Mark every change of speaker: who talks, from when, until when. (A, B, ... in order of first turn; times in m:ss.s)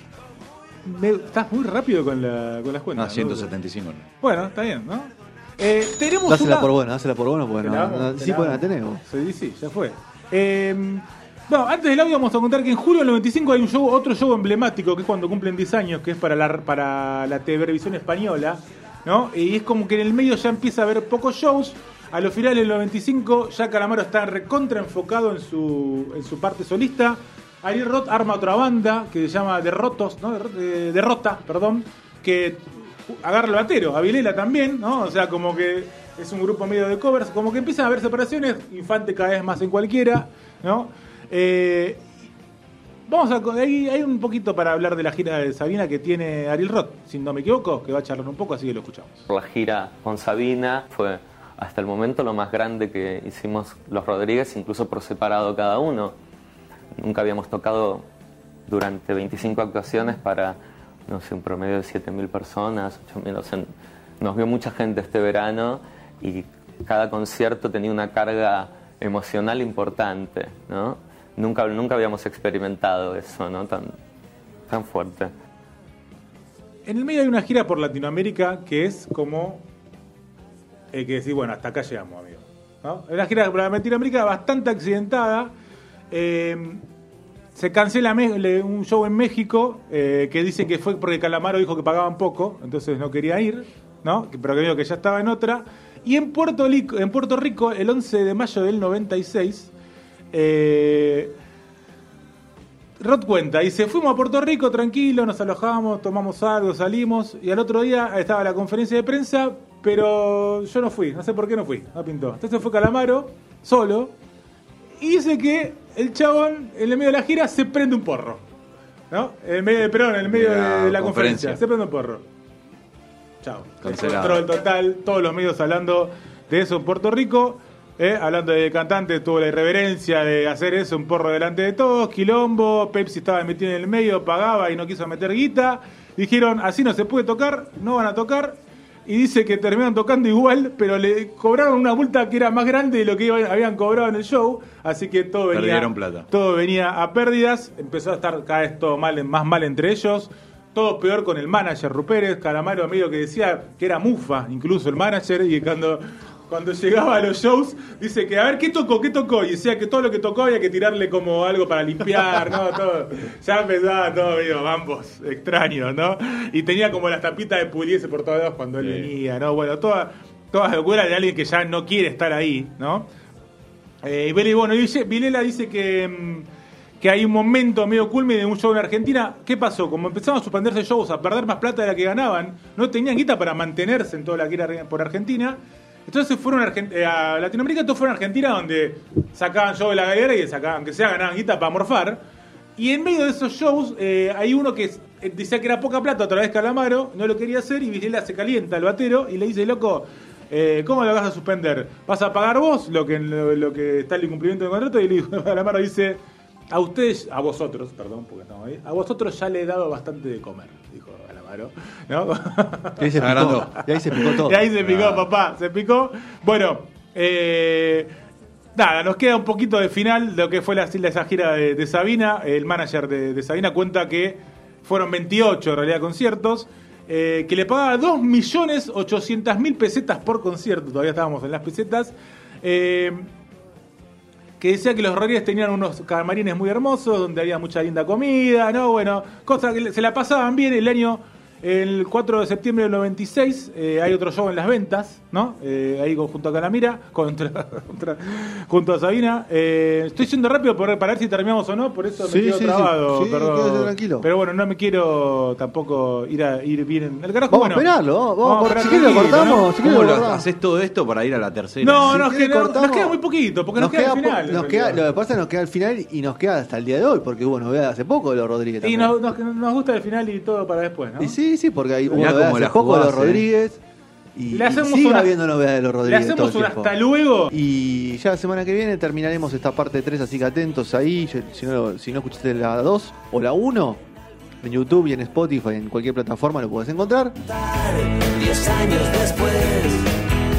0:00.8-0:03.5 A
0:03.0-0:04.0 B
0:04.2-0:06.7 A
0:06.2-0:09.0 C
0:07.6-0:42.1 A
0:43.1-0:49.2 A
0:49.3-0:56.1 D
0:57.0-0:58.0 D
0:58.7-1:13.9 D
1:14.7-1:15.3 D
1:16.9-1:19.6 A
1:20.9-1:25.5 A
1:26.1-1:26.8 A
1:27.5-1:39.7 A
1:40.3-1:41.3 A
1:43.0-1:54.1 A
1:55.0-1:58.4 A
1:59.1-2:02.2 A
2:00.2-2:01.6 B
2:03.4-2:53.1 A
2:03.8-2:04.5 B
2:25.5-2:26.3 B
2:54.0-2:56.5 A
2:57.0-3:12.2 A
3:12.8-3:38.1 A
3:33.0-3:34.7 C
3:33.2-3:33.7 B
3:34.8-3:35.2 B
3:38.8-3:53.3 A
3:54.6-4:19.7 A
4:12.2-4:14.3 C
4:17.5-4:20.4 C
4:19.8-4:22.2 B
4:21.8-4:25.0 A
4:22.0-4:23.2 C
4:23.7-4:29.1 C
4:28.8-4:31.4 A
4:31.2-4:33.8 C
4:32.1-4:33.4 B
4:34.3-4:37.0 C
4:34.5-4:35.4 A
4:36.0-4:37.5 A
4:37.5-4:44.0 C
4:44.6-4:47.4 C
4:47.4-4:50.1 E